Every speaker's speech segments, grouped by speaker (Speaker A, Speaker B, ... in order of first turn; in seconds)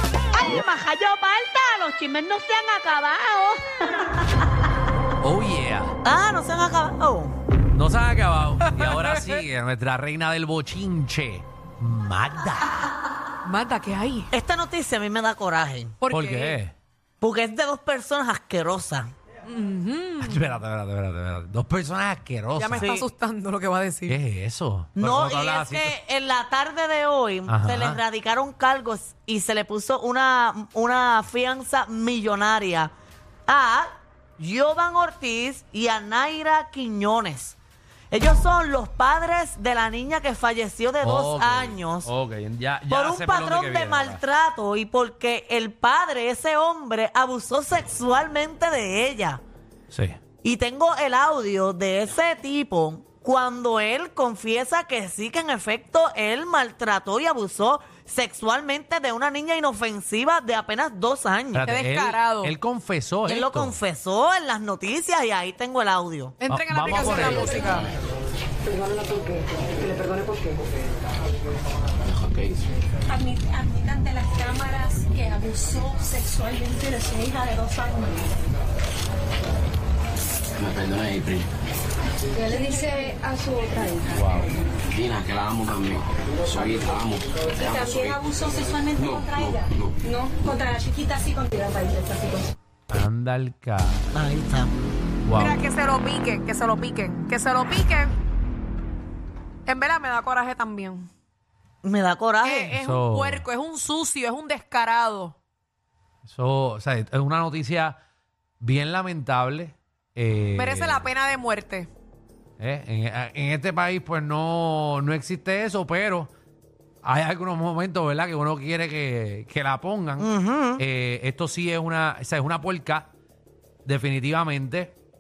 Speaker A: 0.3-4.5, 6.0-7.3, 14.3-15.9, 17.2-19.1, 22.8-23.1, 25.0-32.9, 33.5-37.6, 38.1-42.1, 42.9-49.4, 50.4-61.7, 63.2-66.3, 94.1-94.7, 101.8-102.8, 120.2-120.8
Speaker B: 5.2-6.0, 7.7-12.9, 16.1-16.7, 20.2-22.9, 24.1-25.9, 27.5-28.0, 41.0-44.2, 49.9-50.2, 61.5-63.8, 66.5-67.8, 84.1-84.6, 92.9-94.1, 95.2-95.6, 102.8-103.4, 106.3-108.0, 108.6-111.1, 112.6-116.3, 117.0-123.1, 123.9-124.9
Speaker C: 8.7-9.4, 13.4-14.3, 16.0-16.6, 19.5-20.4, 22.6-24.2, 61.7-62.5, 66.4-67.9, 95.4-98.1, 99.7-101.1, 102.4-105.3, 110.6-111.9
Speaker D: 72.0-72.6, 80.6-81.5, 84.9-88.2, 89.0-89.9
Speaker E: 73.1-78.5, 82.3-84.2, 87.5-92.5